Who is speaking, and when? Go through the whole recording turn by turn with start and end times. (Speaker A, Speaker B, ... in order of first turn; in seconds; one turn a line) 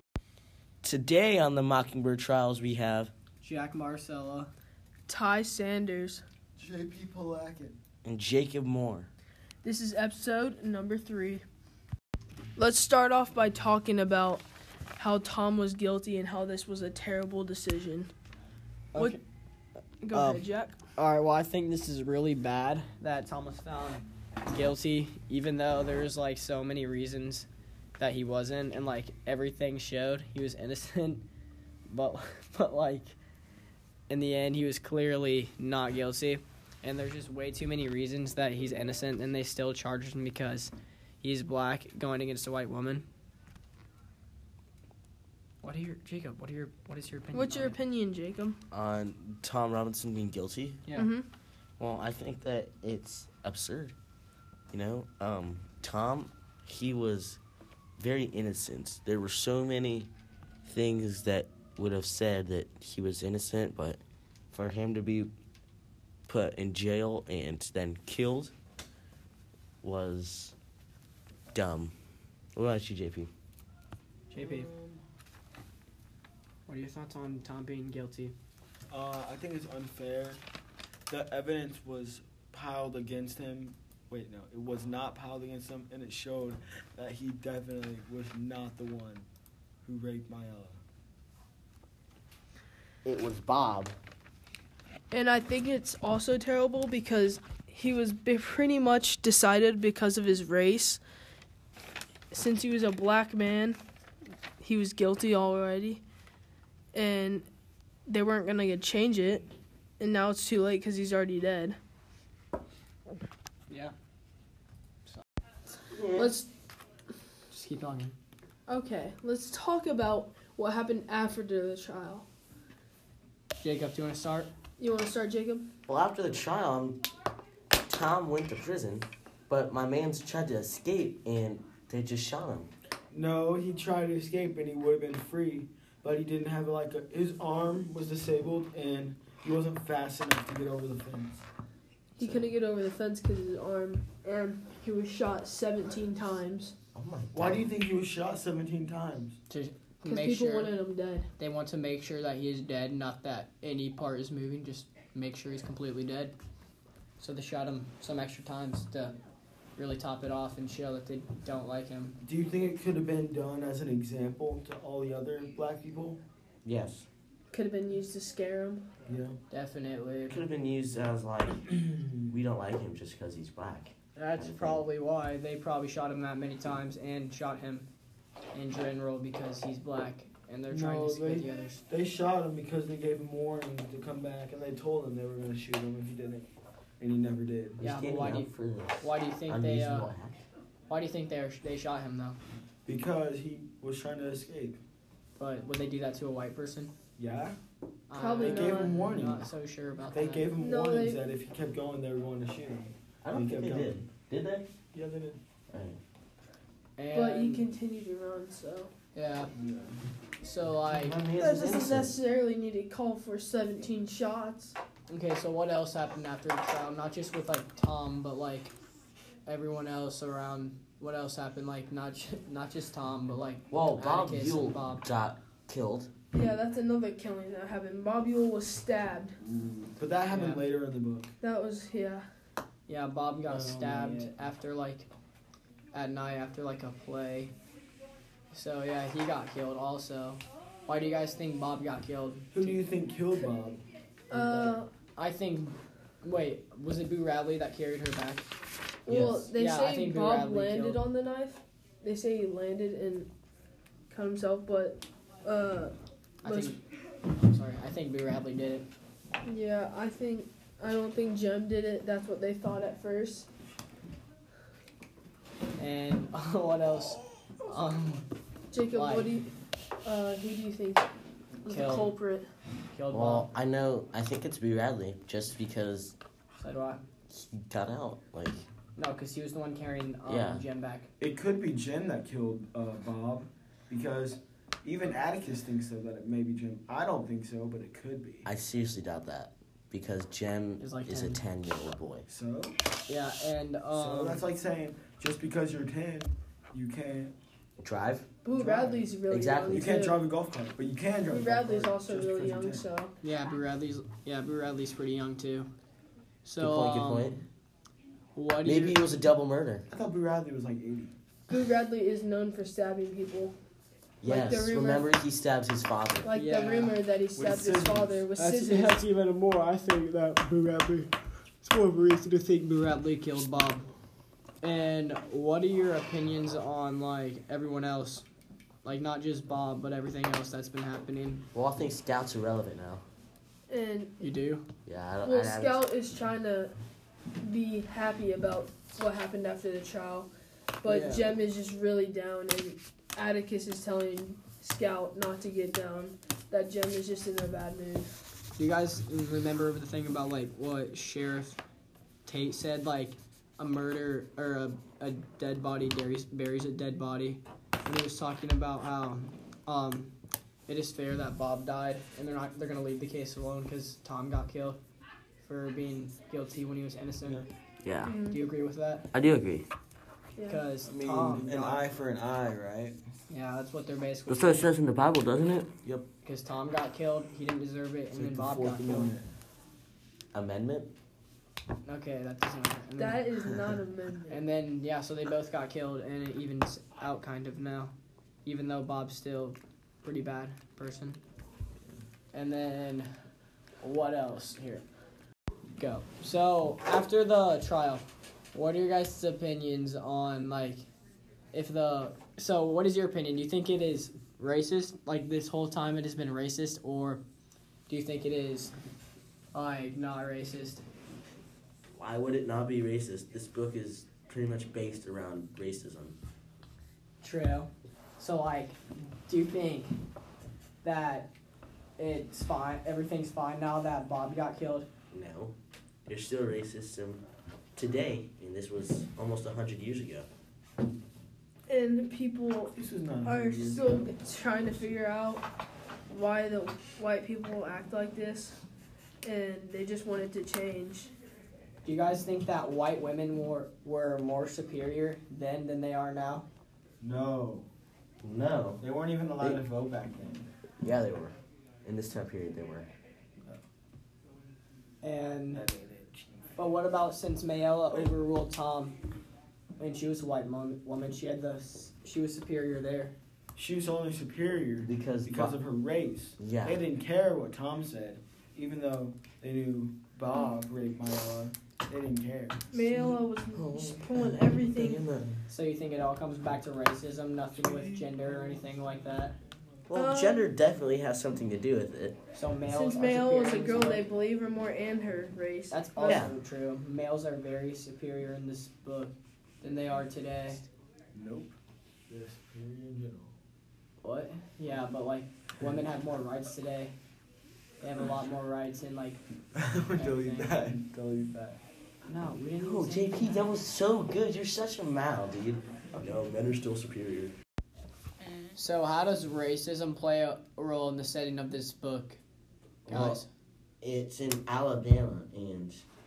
Speaker A: 0.8-3.1
Speaker B: 3.4-4.5
Speaker C: 5.1-6.2
Speaker D: 6.6-7.8
Speaker A: 8.0-9.1
Speaker C: 9.6-11.4
Speaker C: 12.6-14.4
Speaker C: 15.0-18.1
Speaker B: 18.9-19.2
Speaker C: 20.0-20.8
Speaker B: 20.1-20.4
Speaker B: 20.9-31.2
Speaker B: 31.9-33.1
Speaker B: 34.1-43.1
Speaker B: 45.6-47.8
Speaker C: 47.3-48.6
Speaker A: 48.7-50.8
Speaker B: 50.8-51.1
Speaker C: 50.9-51.3
Speaker A: 51.8-53.9
Speaker A: 54.7-57.4
Speaker A: 58.0-60.1
Speaker A: 60.6-64.0
Speaker A: 64.5-65.3
Speaker A: 66.3-68.5
Speaker A: 69.8-70.5
Speaker A: 71.5-71.9
Speaker A: 72.5-73.3
Speaker B: 74.3-74.7
Speaker D: 74.3-75.0
Speaker B: 76.7-78.3
Speaker D: 78.9-80.4
Speaker D: 81.1-89.3
Speaker D: 89.8-90.8
Speaker A: 93.0-94.0
Speaker C: 95.1-101.0
Speaker C: 102.3-103.8
Speaker C: 104.6-106.0
Speaker C: 106.9-107.5
Speaker C: 108.1-109.5
Speaker C: 110.0-111.8
Speaker B: 113.7-113.9
Speaker A: 115.9-116.3
Speaker C: 116.1-116.5
Speaker B: 117.5-118.1
Speaker C: 118.7-122.2
Speaker B: 123.6-124.5
Speaker C: 124.8-125.7
Speaker A: 125.9-127.0
Speaker A: 127.9-132.7
Speaker D: 133.1-141.4
Speaker C: 142.2-146.7
Speaker A: 146.9-147.7
Speaker D: 147.3-149.3
Speaker B: 149.5-150.7
Speaker C: 150.1-151.3
Speaker B: 151.4-156.3
Speaker B: 157.2-159.2
Speaker B: 159.8-162.2
Speaker D: 162.2-166.2
Speaker A: 166.6-167.1
Speaker C: 167.5-168.8
Speaker D: 169.1-169.3
Speaker B: 169.5-170.4
Speaker A: 170.3-174.8
Speaker B: 174.1-177.9
Speaker B: 178.5-181.8
Speaker D: 180.7-186.5
Speaker D: 187.0-187.8
Speaker B: 187.8-190.1
Speaker A: 187.8-190.4
Speaker B: 190.9-192.4
Speaker D: 192.8-194.8
Speaker B: 195.4-196.9
Speaker D: 197.2-197.6
Speaker B: 198.1-200.5
Speaker C: 198.2-199.0
Speaker D: 198.4-199.5
Speaker D: 200.1-204.0
Speaker C: 200.5-201.2
Speaker A: 203.2-204.7
Speaker D: 204.9-205.4
Speaker A: 205.7-206.0
Speaker B: 207.0-207.7
Speaker C: 207.1-208.9
Speaker B: 209.1-209.5
Speaker D: 209.5-210.0
Speaker B: 210.4-211.2
Speaker A: 210.9-212.1
Speaker C: 211.3-214.8
Speaker B: 215.1-218.7
Speaker B: 219.4-225.0
Speaker A: 223.7-226.1
Speaker C: 226.3-229.3
Speaker D: 229.4-231.3
Speaker B: 230.3-230.6
Speaker C: 231.4-232.2
Speaker B: 232.9-235.1
Speaker D: 233.4-234.3
Speaker B: 235.9-237.5
Speaker B: 238.5-242.8
Speaker D: 242.5-244.8
Speaker C: 244.3-244.9
Speaker B: 245.1-248.5
Speaker C: 249.1-253.3
Speaker A: 249.1-249.4
Speaker B: 249.6-251.0
Speaker C: 254.1-255.9
Speaker B: 256.4-256.8
Speaker C: 256.4-256.8
Speaker B: 257.4-258.9
Speaker C: 259.4-263.5
Speaker B: 265.8-268.2
Speaker C: 268.7-269.5
Speaker B: 268.9-269.4
Speaker C: 270.0-271.1
Speaker C: 271.6-272.5
Speaker B: 271.7-272.1
Speaker B: 272.9-273.5
Speaker A: 273.1-276.1
Speaker B: 276.5-277.0
Speaker A: 277.3-278.6
Speaker B: 278.9-281.1
Speaker A: 280.2-280.6
Speaker D: 281.2-288.5
Speaker A: 288.4-292.2
Speaker B: 290.8-291.4
Speaker D: 292.3-292.8
Speaker B: 293.1-294.4
Speaker D: 293.9-297.3
Speaker A: 297.8-298.3
Speaker C: 298.4-300.2
Speaker D: 298.5-299.1
Speaker A: 299.3-299.9
Speaker D: 299.7-302.9
Speaker C: 301.3-303.1
Speaker B: 303.2-305.7
Speaker B: 306.4-307.4
Speaker A: 306.6-307.4
Speaker B: 308.3-309.0
Speaker A: 308.6-309.9
Speaker D: 309.9-311.1
Speaker C: 311.5-313.6
Speaker A: 314.2-316.3
Speaker C: 314.2-315.0
Speaker C: 316.2-319.0
Speaker B: 316.3-317.0
Speaker D: 317.3-318.2
Speaker B: 318.4-323.9
Speaker B: 324.6-328.2
Speaker B: 328.8-331.4
Speaker A: 331.5-333.0
Speaker C: 333.7-334.2
Speaker B: 334.2-334.6
Speaker A: 334.9-335.8
Speaker C: 335.2-336.7
Speaker C: 337.4-340.3
Speaker C: 340.8-348.2
Speaker B: 340.9-341.3
Speaker B: 348.6-351.6
Speaker B: 352.2-360.1
Speaker B: 360.7-364.8
Speaker B: 365.4-367.4
Speaker A: 367.8-368.1
Speaker C: 368.0-368.4
Speaker B: 368.3-369.1
Speaker A: 369.1-369.7
Speaker C: 370.4-370.6
Speaker B: 370.5-371.8
Speaker D: 370.8-373.0
Speaker B: 373.3-374.7
Speaker A: 374.3-375.8
Speaker B: 376.2-379.1
Speaker D: 378.1-379.3
Speaker A: 380.3-380.9
Speaker B: 381.8-383.3
Speaker C: 383.0-384.4
Speaker B: 384.3-387.9
Speaker B: 388.4-391.2
Speaker B: 392.3-393.1
Speaker B: 393.8-394.8
Speaker B: 395.8-400.8
Speaker B: 401.5-407.2
Speaker B: 407.9-408.7
Speaker B: 409.5-410.8
Speaker A: 411.9-416.2
Speaker B: 417.2-419.9
Speaker B: 420.8-421.3
Speaker B: 422.0-424.9
Speaker A: 425.1-425.5
Speaker A: 426.1-427.2
Speaker A: 427.8-430.3
Speaker C: 431.7-435.4
Speaker D: 432.8-434.9
Speaker C: 436.1-438.6
Speaker C: 439.2-441.1
Speaker B: 441.8-446.4
Speaker D: 447.0-447.7
Speaker A: 448.2-448.8
Speaker D: 448.8-450.5
Speaker A: 450.8-452.9
Speaker B: 455.0-455.6
Speaker D: 455.5-456.3
Speaker B: 456.6-459.0
Speaker B: 459.8-463.1
Speaker D: 463.6-472.7
Speaker A: 464.8-465.6
Speaker A: 466.4-466.8
Speaker C: 472.7-475.0
Speaker A: 472.9-475.4
Speaker B: 475.5-479.4
Speaker D: 477.5-478.7
Speaker A: 479.9-482.2
Speaker C: 479.9-480.5
Speaker B: 482.3-484.1
Speaker C: 482.7-486.3
Speaker B: 485.7-490.6
Speaker A: 486.0-486.4
Speaker D: 491.1-491.6
Speaker D: 492.1-493.3
Speaker B: 494.0-496.9
Speaker B: 497.8-499.2
Speaker D: 499.5-501.6
Speaker B: 499.9-500.7
Speaker B: 502.1-503.5
Speaker A: 502.6-507.3
Speaker B: 508.5-512.2
Speaker A: 512.9-513.2
Speaker B: 512.9-513.3
Speaker A: 513.8-515.8